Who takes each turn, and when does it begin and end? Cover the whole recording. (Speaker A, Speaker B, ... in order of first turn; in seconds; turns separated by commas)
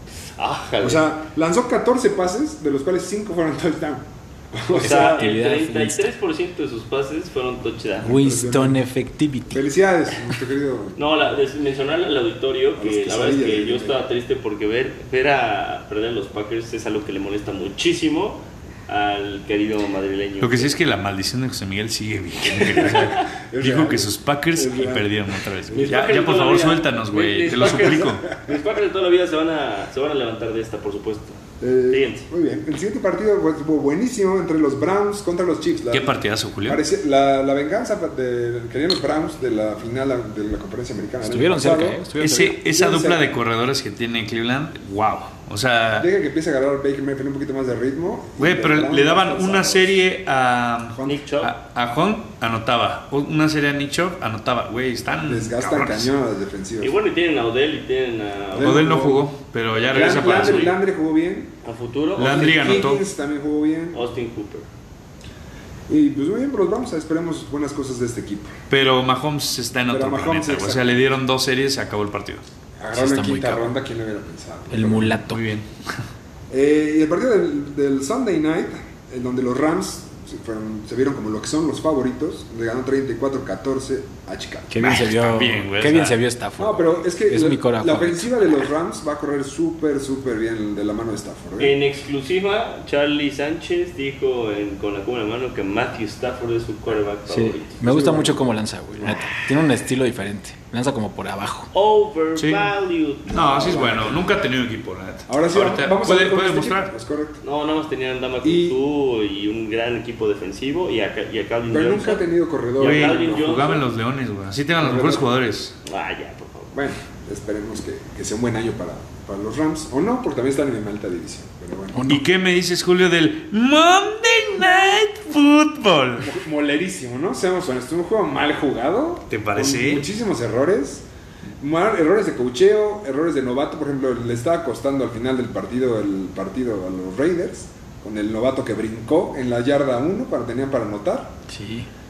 Speaker A: 0.4-1.1, Speaker B: 0.8-5.3, Speaker A: 4.7-8.1, Speaker C: 4.8-6.0, Speaker B: 8.0-8.8, Speaker C: 8.0-9.6, Speaker B: 9.5-11.3, Speaker A: 10.9-20.7, Speaker B: 12.8-14.0, Speaker D: 20.4-28.2, Speaker A: 22.5-23.2, Speaker B: 22.5-26.1, Speaker A: 25.7-32.3, Speaker B: 27.8-28.6, Speaker B: 31.6-43.4, Speaker D: 35.9-36.8, Speaker C: 41.2-42.6, Speaker D: 42.2-46.1, Speaker B: 45.9-50.0, Speaker D: 48.4-56.1, Speaker A: 51.0-51.5, Speaker B: 55.2-57.0, Speaker A: 56.8-58.9, Speaker B: 58.5-59.3, Speaker D: 58.6-60.7, Speaker A: 59.8-60.8, Speaker B: 59.9-61.5, Speaker A: 61.6-62.8, Speaker D: 62.2-63.0, Speaker B: 62.2-64.1, Speaker A: 63.9-64.7, Speaker B: 65.9-68.6, Speaker D: 68.7-72.4, Speaker B: 69.9-71.2, Speaker B: 72.8-75.2, Speaker C: 72.9-73.7, Speaker C: 74.7-75.4, Speaker D: 75.2-75.9, Speaker B: 76.5-85.0, Speaker C: 84.7-88.5, Speaker D: 84.8-86.2, Speaker B: 86.6-91.8, Speaker A: 91.6-97.8, Speaker C: 97.3-101.7, Speaker B: 97.8-98.4, Speaker B: 99.0-99.2, Speaker A: 101.7-104.2, Speaker D: 102.4-102.7, Speaker D: 103.3-106.9, Speaker B: 103.3-104.3, Speaker B: 105.3-107.4, Speaker A: 107.4-112.2, Speaker B: 108.4-108.8, Speaker B: 111.7-113.6, Speaker A: 112.8-113.8, Speaker D: 112.8-115.7, Speaker B: 114.8-115.3, Speaker A: 115.8-116.7, Speaker B: 116.7-122.0, Speaker C: 121.9-122.2, Speaker D: 122.1-126.3, Speaker B: 126.2-131.1, Speaker D: 129.3-130.1, Speaker B: 131.6-141.4, Speaker C: 141.5-141.9